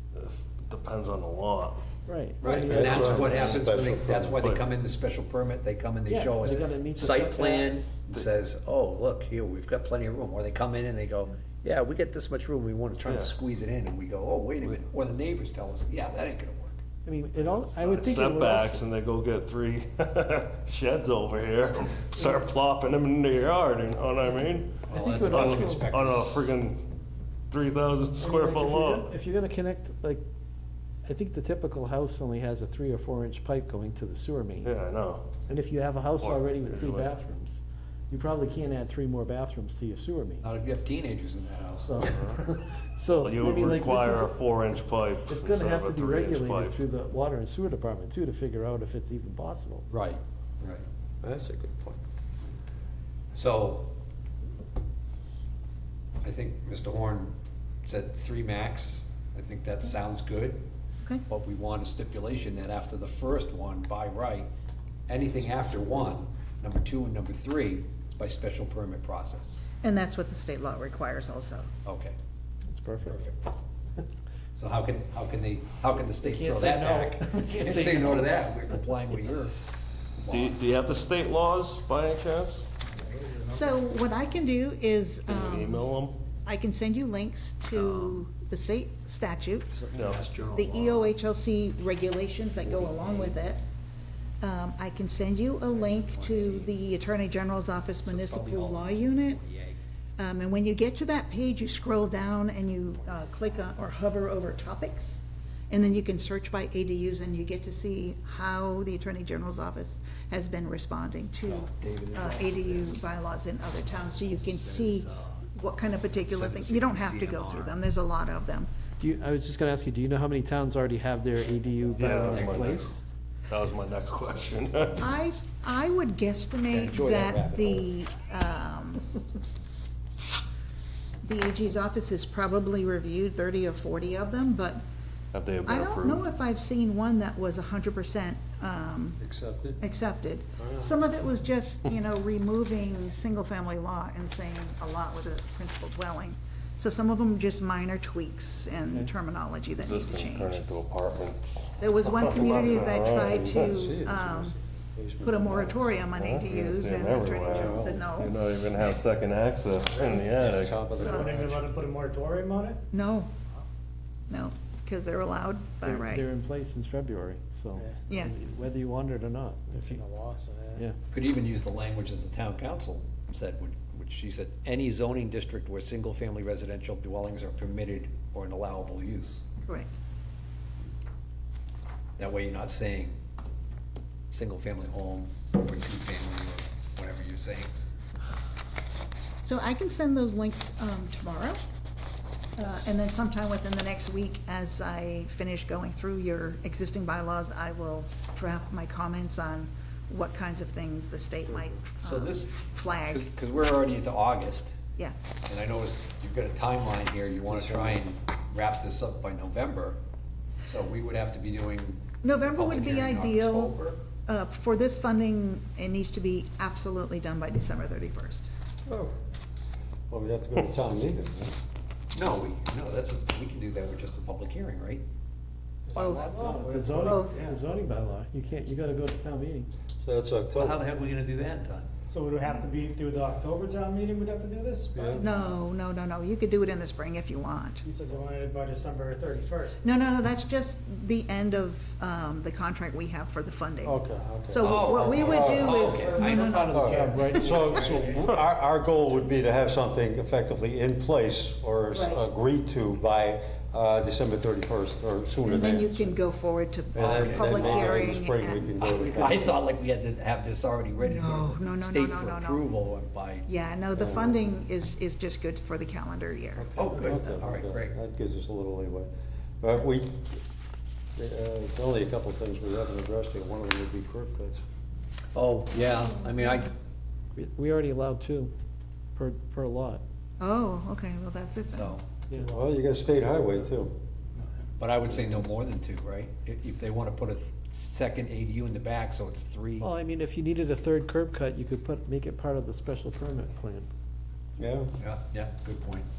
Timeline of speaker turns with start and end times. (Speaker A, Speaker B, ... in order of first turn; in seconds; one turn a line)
Speaker A: 0.1-1.9
Speaker B: 2.0-3.6
Speaker C: 2.4-16.8
Speaker D: 2.5-4.4
Speaker A: 2.7-3.0
Speaker A: 4.4-4.7
Speaker B: 6.1-8.0
Speaker A: 13.0-13.3
Speaker B: 17.1-18.8
Speaker A: 17.4-26.9
Speaker C: 24.9-26.5
Speaker B: 24.9-25.9
Speaker A: 27.5-29.1
Speaker B: 28.2-30.2
Speaker B: 31.0-34.7
Speaker A: 34.6-35.3
Speaker B: 35.5-40.4
Speaker A: 36.2-37.1
Speaker C: 40.4-41.9
Speaker B: 41.8-44.4
Speaker A: 43.2-46.8
Speaker B: 45.2-49.9
Speaker C: 49.9-50.8
Speaker D: 51.2-52.0
Speaker C: 53.3-53.9
Speaker C: 56.2-57.3
Speaker C: 57.9-60.6
Speaker C: 61.3-64.5
Speaker C: 65.1-69.6
Speaker E: 69.8-71.7
Speaker C: 71.8-72.2
Speaker B: 72.7-73.2
Speaker C: 73.0-73.5
Speaker C: 74.5-79.5
Speaker B: 76.2-78.4
Speaker C: 80.2-80.6
Speaker A: 80.3-82.7
Speaker F: 83.0-83.5
Speaker E: 83.5-85.8
Speaker A: 85.2-86.2
Speaker E: 86.4-89.8
Speaker C: 87.7-88.2
Speaker A: 89.9-90.3
Speaker C: 90.0-91.1
Speaker E: 90.5-93.6
Speaker E: 94.4-99.4
Speaker C: 95.7-96.7
Speaker C: 98.0-99.8
Speaker E: 100.2-118.7
Speaker C: 111.5-113.1
Speaker C: 114.0-115.5
Speaker C: 116.2-117.8
Speaker B: 119.0-123.0
Speaker A: 121.9-123.0
Speaker C: 122.2-122.5
Speaker A: 123.5-125.3
Speaker E: 125.0-129.1
Speaker C: 126.7-127.9
Speaker E: 131.2-134.8
Speaker A: 135.3-136.2
Speaker E: 135.7-139.2
Speaker D: 139.2-139.8
Speaker E: 139.8-150.6
Speaker D: 140.6-141.0
Speaker A: 149.8-153.7
Speaker E: 151.8-154.5
Speaker D: 152.4-156.0
Speaker E: 155.2-158.4
Speaker A: 156.1-160.9
Speaker D: 157.5-158.0
Speaker D: 160.5-161.5
Speaker E: 161.0-161.3
Speaker F: 161.0-162.8
Speaker E: 162.9-163.3
Speaker E: 164.3-166.2
Speaker B: 165.8-170.0
Speaker F: 169.7-170.8
Speaker C: 171.1-179.4
Speaker C: 182.2-183.2
Speaker C: 184.3-187.7
Speaker E: 189.4-191.6
Speaker E: 192.6-203.2
Speaker C: 202.0-204.8
Speaker C: 205.4-210.0
Speaker D: 207.5-208.0
Speaker C: 210.6-214.0
Speaker E: 212.2-213.7
Speaker E: 214.2-218.5
Speaker D: 218.8-219.1
Speaker D: 220.1-221.5
Speaker C: 222.1-225.0
Speaker F: 225.9-227.6
Speaker E: 225.9-226.3
Speaker B: 226.3-229.7
Speaker E: 227.0-227.4
Speaker D: 230.0-230.8
Speaker C: 230.5-231.9
Speaker F: 232.1-235.2
Speaker D: 234.9-235.2
Speaker E: 235.2-237.8
Speaker F: 237.8-239.8
Speaker E: 239.8-247.6
Speaker D: 243.8-256.2
Speaker C: 244.6-246.9
Speaker B: 246.1-248.0
Speaker F: 247.8-248.0
Speaker E: 251.9-252.2
Speaker E: 255.4-259.3
Speaker D: 256.9-259.6
Speaker C: 257.0-258.2
Speaker C: 258.8-263.5
Speaker E: 261.0-262.7
Speaker E: 263.5-267.4
Speaker D: 263.9-264.4
Speaker D: 266.6-269.1
Speaker C: 266.8-267.9
Speaker D: 269.6-270.4
Speaker D: 271.2-274.6
Speaker C: 275.3-276.7
Speaker B: 277.4-278.5
Speaker B: 279.1-280.0
Speaker E: 280.4-282.0
Speaker C: 281.7-282.0
Speaker D: 282.4-283.9
Speaker C: 284.8-289.9
Speaker B: 289.8-293.9
Speaker D: 294.6-294.9
Speaker C: 295.0-296.1